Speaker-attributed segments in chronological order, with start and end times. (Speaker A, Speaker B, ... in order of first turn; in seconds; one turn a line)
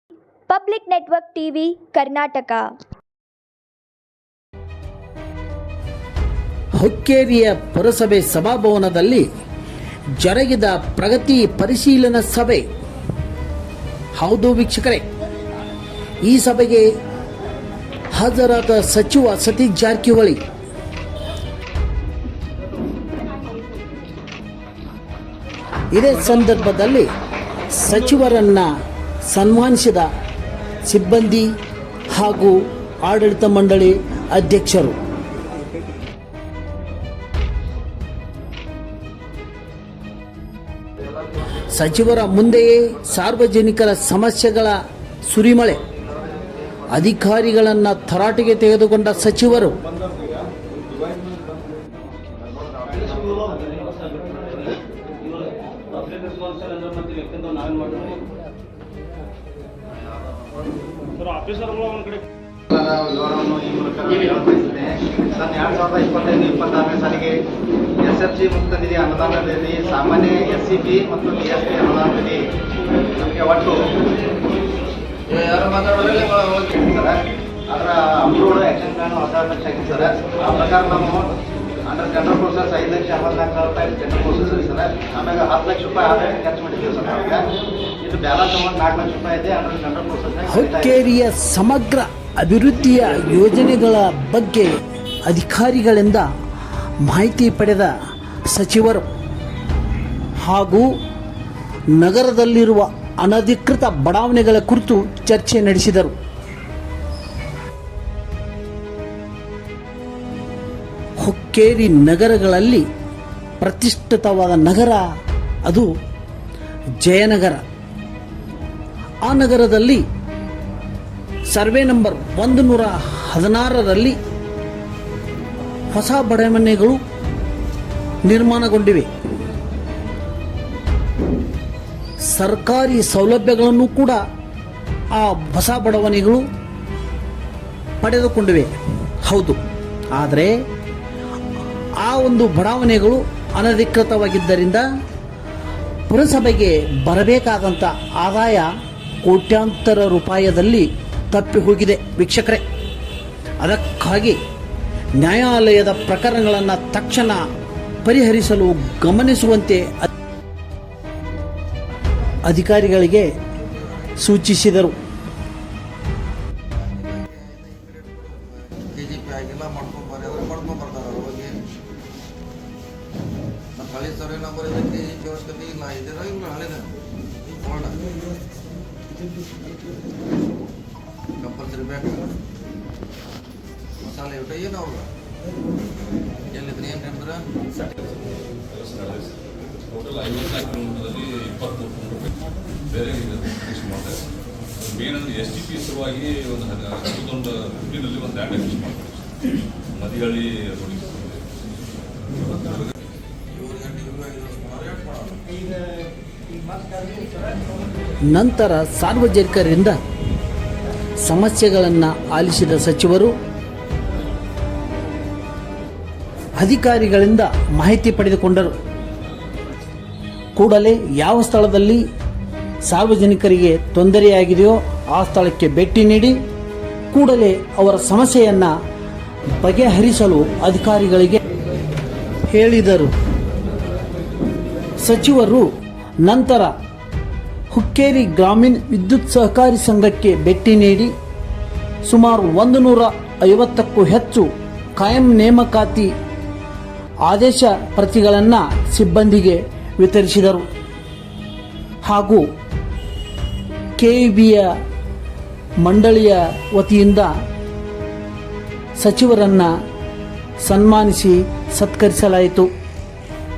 Speaker A: 0.5-2.7
Speaker B: 6.8-9.2
Speaker B: 10.2-12.6
Speaker B: 14.2-15.0
Speaker B: 16.2-16.9
Speaker B: 18.1-20.4
Speaker B: 25.9-27.1
Speaker B: 27.7-28.7
Speaker B: 29.3-30.1
Speaker B: 30.9-31.5
Speaker B: 32.1-35.0
Speaker B: 41.5-45.8
Speaker B: 46.9-49.8
Speaker C: 53.4-53.6
Speaker C: 62.7-67.3
Speaker C: 68.0-72.4
Speaker C: 73.1-73.8
Speaker D: 75.3-76.4
Speaker C: 76.1-81.3
Speaker C: 81.8-87.4
Speaker C: 88.0-91.1
Speaker B: 90.5-94.7
Speaker B: 95.2-96.2
Speaker B: 97.0-97.9
Speaker B: 98.5-99.0
Speaker B: 100.4-100.9
Speaker B: 101.9-106.1
Speaker B: 111.2-112.8
Speaker B: 113.6-115.0
Speaker B: 117.0-117.6
Speaker B: 119.2-120.0
Speaker B: 121.5-124.2
Speaker B: 125.9-127.0
Speaker B: 128.2-129.1
Speaker B: 132.3-134.2
Speaker B: 135.1-136.4
Speaker B: 138.0-138.7
Speaker B: 139.2-139.6
Speaker B: 140.2-140.5
Speaker B: 142.0-144.8
Speaker B: 146.1-148.7
Speaker B: 149.2-152.6
Speaker B: 153.6-154.4
Speaker B: 155.2-157.4
Speaker B: 158.0-159.9
Speaker B: 162.4-163.3
Speaker B: 164.2-164.9
Speaker D: 166.7-171.5
Speaker D: 173.8-176.9
Speaker D: 177.4-178.0
Speaker D: 181.4-182.4
Speaker D: 184.0-185.1
Speaker D: 186.5-187.5
Speaker E: 188.0-194.2
Speaker E: 194.9-199.3
Speaker E: 199.9-201.4
Speaker D: 203.5-205.4
Speaker B: 208.3-209.9
Speaker B: 211.2-213.3
Speaker B: 216.6-218.7
Speaker B: 220.6-222.0
Speaker B: 222.8-226.4
Speaker B: 227.1-228.7
Speaker B: 229.6-231.4
Speaker B: 232.5-233.1
Speaker B: 235.0-235.7
Speaker B: 236.2-236.7
Speaker B: 237.7-241.1
Speaker B: 242.1-246.1
Speaker B: 247.3-250.7
Speaker B: 252.0-252.4
Speaker B: 254.0-254.7
Speaker B: 255.8-257.3
Speaker B: 259.0-259.7
Speaker B: 260.6-262.7